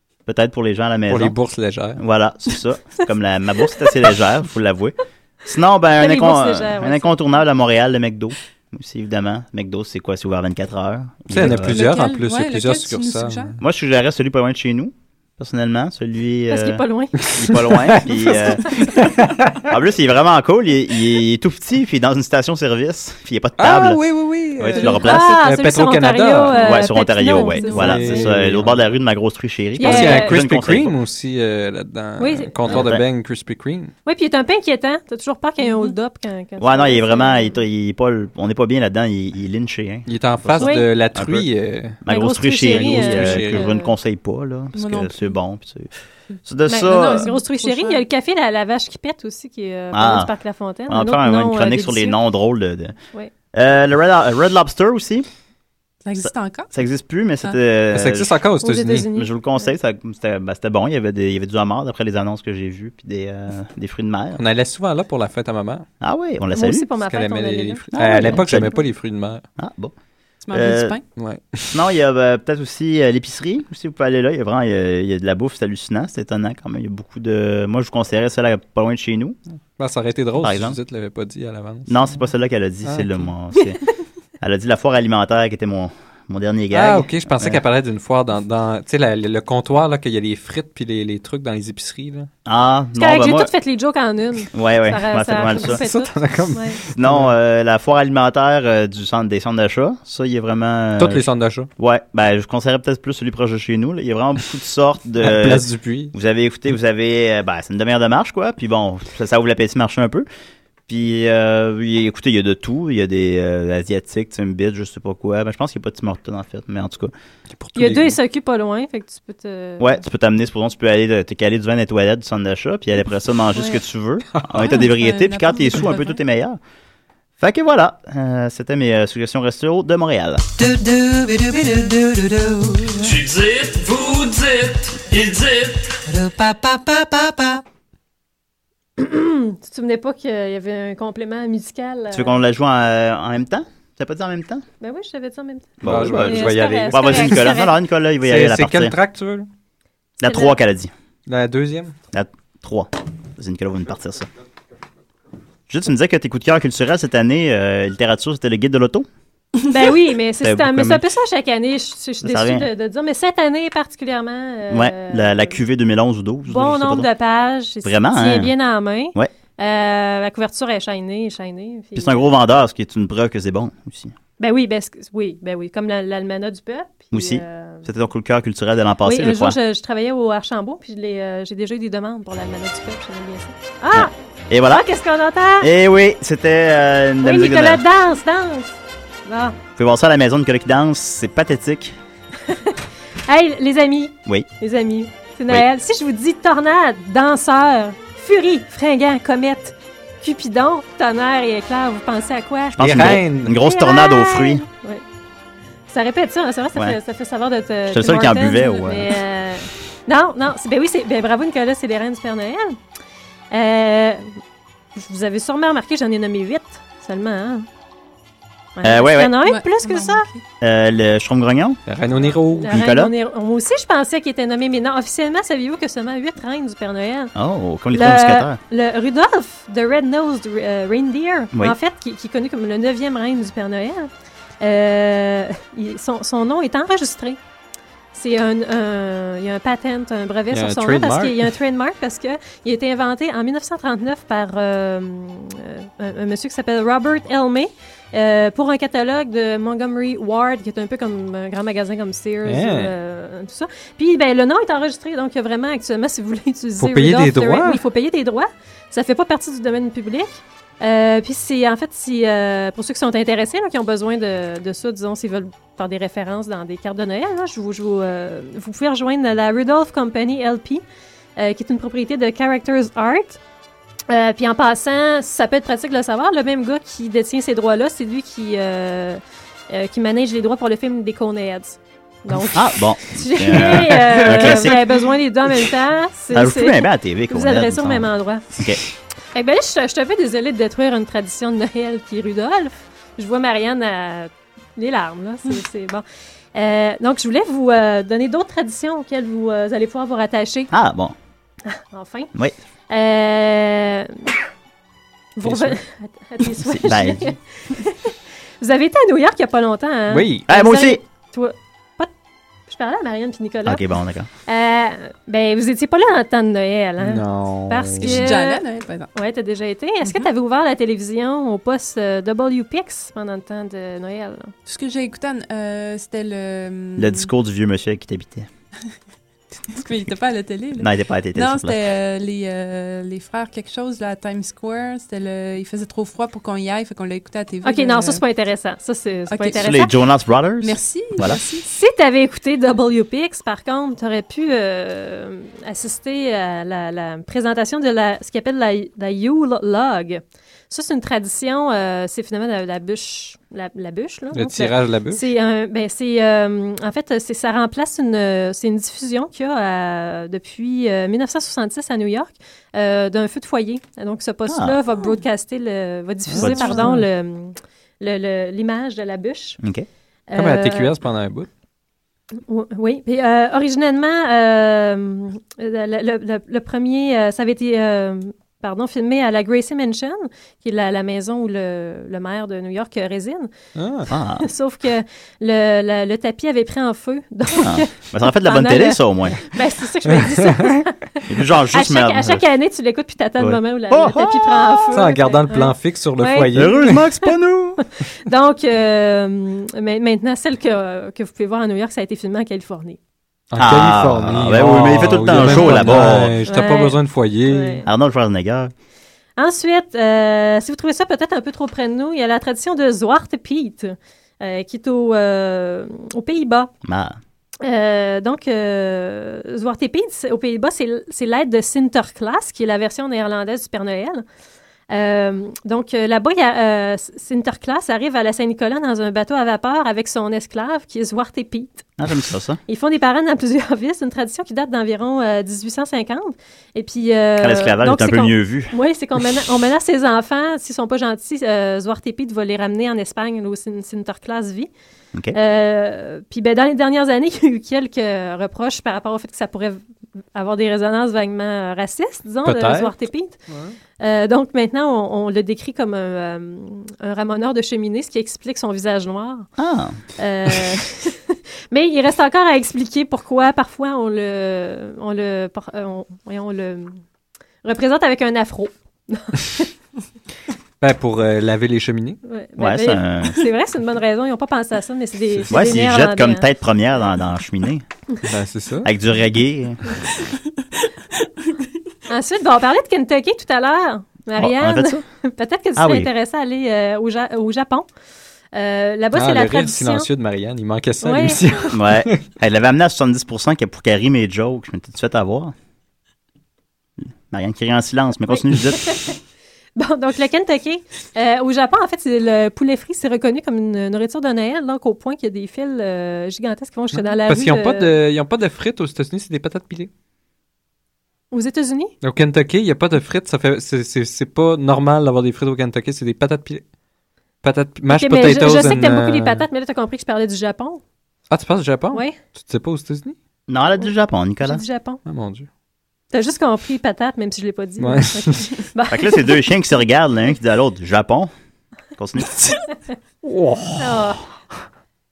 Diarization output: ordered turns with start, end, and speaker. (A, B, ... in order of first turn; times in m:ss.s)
0:00.2-0:01.3 A
0:01.1-0:02.0 B
0:02.0-0:11.9 A
0:06.0-0:07.2 C
0:11.3-0:13.6 B
0:11.4-0:13.5 D
0:13.6-0:18.8 A
0:16.5-0:17.2 C
0:17.2-0:19.7 B
0:19.7-0:24.0 A
0:23.6-0:26.6 B
0:24.5-0:25.4 A
0:24.8-0:28.2 C
0:26.5-0:30.9 A
0:27.6-0:28.0 D
0:27.6-0:28.8 B
0:29.8-0:30.4 C
0:29.8-0:33.9 B
0:32.2-0:32.8 C
0:32.7-0:33.0 A
0:34.0-0:37.6 C
0:35.6-0:35.9 D
0:36.6-0:41.5 A
0:40.1-0:42.0 B
0:40.6-0:40.9 C
0:42.0-0:45.9 A
0:42.1-0:43.9 C
0:42.7-0:43.7 B
0:44.7-0:45.4 D
0:46.4-0:47.3 A
0:46.7-0:52.2 C
0:47.0-0:48.0 D
0:49.9-0:50.3 A
0:50.9-0:52.9 A
0:53.5-0:55.3 A
0:56.0-0:56.7 D
0:56.2-0:58.4 A
0:57.9-0:59.1 B
0:58.6-0:59.7 C
0:59.1-1:04.4 A
1:04.4-1:05.8 B
1:06.0-1:06.9 A
1:06.5-1:08.8 C
1:07.0-1:09.4 B
1:08.0-1:08.8 A
1:09.6-1:09.9 A
1:10.4-1:11.0 D
1:10.5-1:11.0 A
1:11.2-1:11.8 B
1:11.7-1:19.4 A
1:19.8-1:22.0 B
1:20.4-1:20.8 A
1:21.9-1:23.8 A
1:22.8-1:23.3 B
1:24.4-1:27.6 A
1:26.7-1:32.3 B
1:32.4-1:33.5 A
1:33.0-1:36.8 C
1:34.5-1:35.8 A
1:35.7-1:37.3 B
1:36.9-1:41.2 A
1:41.0-1:41.7 B
1:41.8-1:50.2 A
1:45.2-1:46.1 B
1:50.9-1:57.1 A
1:57.5-1:58.2 B
1:57.8-2:00.0 C
1:59.8-2:06.6 A
2:04.3-2:04.8 B
2:04.6-2:06.2 D
2:07.4-2:10.4 A
2:13.0-2:16.0 E
2:19.0-2:22.4 C
2:22.1-2:24.6 A
2:24.8-2:27.7 C
2:25.8-2:28.9 A
2:25.8-2:27.5 B
2:28.2-2:29.5 B
2:30.2-2:30.9 A
2:30.2-2:30.6 C
2:31.3-2:31.9 B
2:32.1-2:34.3 A
2:35.7-2:39.1 A
2:39.7-2:45.6 C
2:40.4-2:41.0 A
2:42.2-2:42.7 A
2:44.7-2:47.1 A
2:46.5-2:52.2 C
2:47.8-2:48.5 A
2:52.0-2:54.1 A
2:54.4-2:57.9 C
2:57.1-2:59.6 A
2:59.0-3:04.1 C
3:03.9-3:04.8 A
3:04.7-3:05.7 C
3:05.6-3:07.8 A
3:07.2-3:09.6 C
3:09.8-3:11.9 A
3:12.4-3:22.8 C
3:22.8-3:24.6 A
3:22.8-3:23.6 B
3:23.5-3:25.0 C
3:25.9-3:32.8 C
3:27.9-3:29.1 A
3:33.5-3:34.2 C
3:35.0-3:37.6 C
3:38.8-3:40.3 C
3:38.8-3:39.4 A
3:39.4-3:40.4 D
3:40.6-3:41.8 A
3:41.9-3:42.7 B
3:42.3-3:47.3 C
3:42.7-3:43.1 A
3:47.3-3:48.6 A
3:47.9-3:54.1 C
3:54.6-3:57.4 C
3:58.1-4:30.8 C
4:00.5-4:01.5 B
4:12.4-4:12.9 B
4:16.8-4:17.8 B
4:31.4-4:33.4 C
4:34.1-4:39.2 C
4:39.7-4:48.4 C
4:42.5-4:45.0 A
4:46.3-4:48.8 A
4:49.3-5:00.7 C
5:00.7-5:01.1 A
5:01.7-5:02.3 C
5:02.9-5:04.3 C
5:05.4-5:12.1 C
5:05.4-5:05.8 B
5:06.7-5:07.3 A
5:10.1-5:10.5 B
5:10.5-5:11.0 A
5:12.7-5:13.8 C
5:13.6-5:14.3 A
5:14.4-5:18.6 C
5:17.0-5:18.2 B
5:18.0-5:19.1 D
5:19.1-5:24.5 C
5:20.0-5:20.3 D
5:24.7-5:27.3 D
5:27.0-5:28.5 A
5:29.7-5:38.2 D
5:30.7-5:31.8 A
5:37.6-5:39.9 C
5:39.3-5:39.6 D
5:39.6-5:41.4 A
5:40.6-5:41.7 D
5:41.7-6:09.6 C
5:54.3-5:55.2 B
6:04.5-6:04.8 A
6:06.3-6:07.0 B
6:06.4-6:06.7 A
6:09.6-6:09.9 A
6:10.3-6:10.9 C
6:10.3-6:11.5 B
6:12.4-6:23.5 C
6:23.8-6:24.1 B
6:24.1-6:24.5 A
6:24.4-6:37.2 C
6:27.6-6:29.6 A
6:30.1-6:30.8 B
6:31.3-6:32.4 A
6:33.4-6:35.0 A
6:34.9-6:37.0 B
6:36.5-6:37.8 A
6:38.2-6:43.0 C
6:43.5-6:47.8 B
6:43.6-6:46.4 A
6:46.4-6:47.9 C
6:47.8-6:48.7 A
6:49.4-6:56.7 C
6:56.8-6:57.2 A
6:57.6-7:04.2 C
7:04.9-7:11.9 C
7:12.0-7:12.6 A
7:12.7-7:24.7 C
7:17.4-7:18.7 A
7:25.3-7:29.8 C
7:30.3-7:33.4 C
7:32.4-7:32.9 B
7:33.5-7:33.8 B
7:34.0-7:39.5 C
7:39.6-7:40.0 A
7:40.2-7:47.0 C
7:47.6-7:49.7 C
7:50.8-7:52.2 B
7:52.2-7:56.4 C
7:52.6-7:53.4 A
7:55.5-7:57.8 A
7:58.2-7:58.9 B
7:58.8-8:00.0 A
8:02.1-8:07.9 C
8:04.4-8:05.0 A
8:05.8-8:06.1 A
8:08.5-8:10.1 C
8:09.2-8:12.2 B
8:11.0-8:11.4 C
8:11.7-8:15.5 A
8:17.3-8:19.0 A
8:18.3-8:19.2 C
8:19.8-8:27.9 C
8:27.0-8:29.9 B
8:31.3-8:31.9 C
8:32.0-8:36.6 B
8:37.4-8:39.4 B
8:37.9-8:40.8 C
8:41.3-8:43.2 B
8:43.5-8:44.6 A
8:44.4-8:45.0 C
8:45.0-8:45.5 B
8:46.1-8:49.3 C
8:47.8-8:48.6 B
8:48.9-8:51.3 A
8:52.0-8:52.4 A
8:53.2-8:53.9 B
8:53.8-8:54.2 C